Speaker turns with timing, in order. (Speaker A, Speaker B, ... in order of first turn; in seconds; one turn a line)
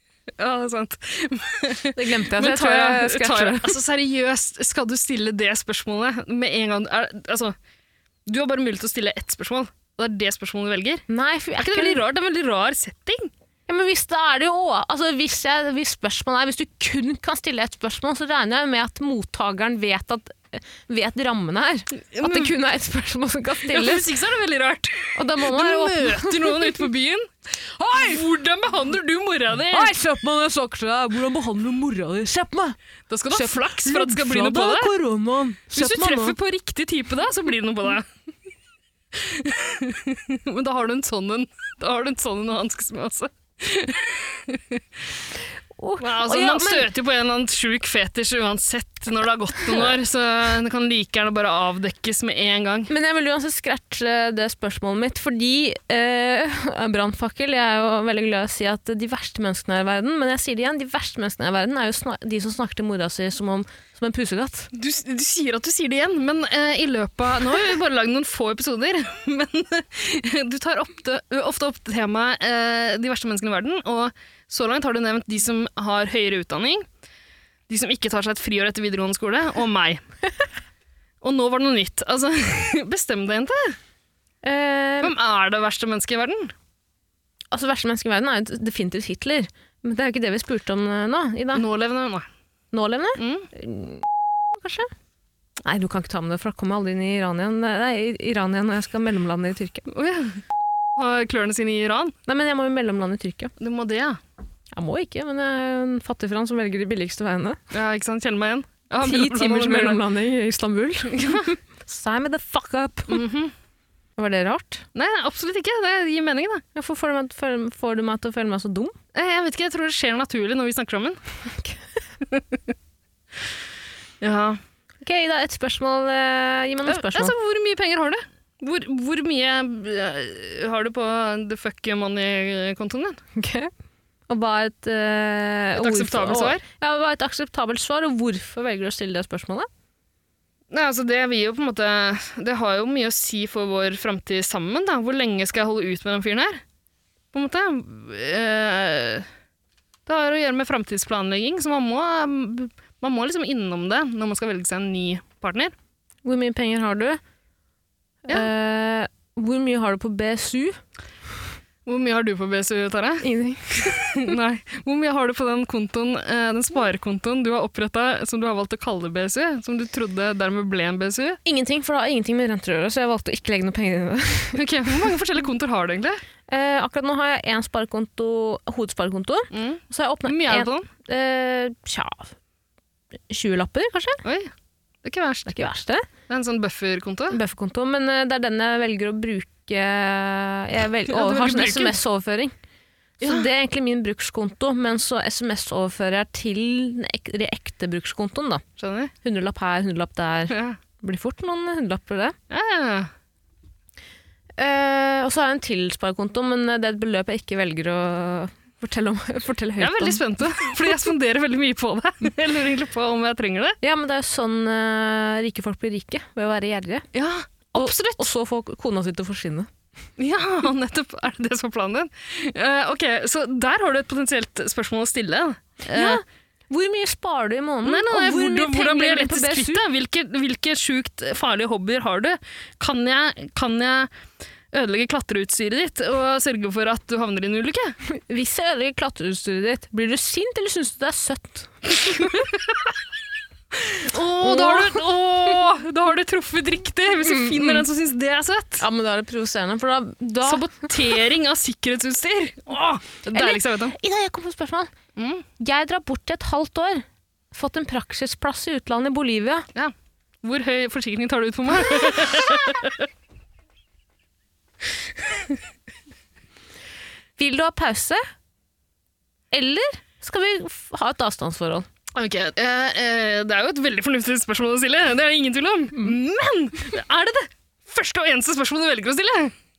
Speaker A: 0.4-7.5
Speaker B: 1.9-3.8
Speaker A: 8.2-11.1
Speaker B: 11.1-12.0
Speaker A: 11.6-13.3
Speaker B: 13.7-24.1
Speaker A: 22.1-22.5
Speaker A: 23.7-27.3
Speaker B: 25.1-26.9
Speaker B: 27.8-28.2
Speaker A: 27.9-29.9
Speaker B: 29.7-32.8
Speaker A: 33.1-34.9
Speaker B: 33.3-36.4
Speaker A: 35.7-38.0
Speaker A: 39.1-44.8
Speaker B: 45.8-46.9
Speaker A: 46.0-52.9
Speaker B: 49.6-49.9
Speaker B: 52.9-64.7
Speaker A: 64.7-76.8
Speaker A: 77.7-80.0
Speaker A: 81.2-83.8
Speaker B: 84.4-85.1
Speaker A: 85.0-86.5
Speaker B: 87.5-91.6
Speaker A: 91.5-92.3
Speaker B: 92.7-94.9
Speaker A: 93.2-93.5
Speaker B: 95.6-99.9
Speaker A: 99.9-100.4
Speaker A: 101.0-102.1
Speaker B: 102.3-103.5
Speaker A: 103.6-104.2
Speaker B: 104.7-107.6
Speaker A: 107.7-110.0
Speaker B: 109.0-113.2
Speaker A: 111.1-111.5
Speaker A: 113.1-113.5
Speaker B: 114.2-114.8
Speaker A: 114.9-116.6
Speaker B: 116.7-118.9
Speaker A: 119.1-121.2
Speaker A: 122.3-122.5
Speaker A: 124.2-124.6
Speaker B: 125.0-127.3
Speaker A: 126.8-133.2
Speaker B: 133.3-133.7
Speaker B: 134.3-139.7
Speaker A: 135.8-136.6
Speaker A: 140.7-146.6
Speaker A: 147.3-149.3
Speaker A: 150.1-155.7
Speaker B: 156.2-157.2
Speaker B: 158.3-160.8
Speaker A: 161.8-163.3
Speaker B: 163.2-164.3
Speaker A: 163.8-171.4
Speaker B: 171.4-174.6
Speaker A: 174.5-176.2
Speaker B: 176.5-182.3
Speaker A: 179.5-180.9
Speaker B: 183.3-184.2
Speaker A: 184.2-184.5
Speaker A: 185.0-185.5
Speaker B: 185.5-186.1
Speaker A: 186.3-187.4
Speaker B: 187.3-192.5
Speaker A: 191.1-192.0
Speaker B: 193.2-198.6
Speaker A: 193.2-193.5
Speaker A: 198.8-199.1
Speaker B: 199.2-202.3
Speaker A: 200.5-200.8
Speaker A: 202.5-203.1
Speaker B: 204.6-210.2
Speaker A: 209.8-213.8
Speaker B: 213.8-217.0
Speaker A: 217.1-218.3
Speaker B: 217.7-219.7
Speaker A: 220.2-226.2
Speaker B: 225.9-229.8
Speaker A: 227.8-234.1
Speaker A: 234.7-238.0
Speaker B: 238.1-242.3
Speaker A: 242.2-242.8
Speaker A: 243.7-248.8
Speaker B: 244.4-245.0
Speaker B: 247.2-247.8
Speaker B: 248.8-250.9
Speaker A: 250.4-253.9
Speaker B: 253.3-254.9
Speaker A: 255.2-255.4
Speaker B: 255.6-259.7
Speaker A: 259.7-263.0
Speaker B: 267.4-268.2
Speaker B: 269.5-271.9
Speaker A: 272.1-279.5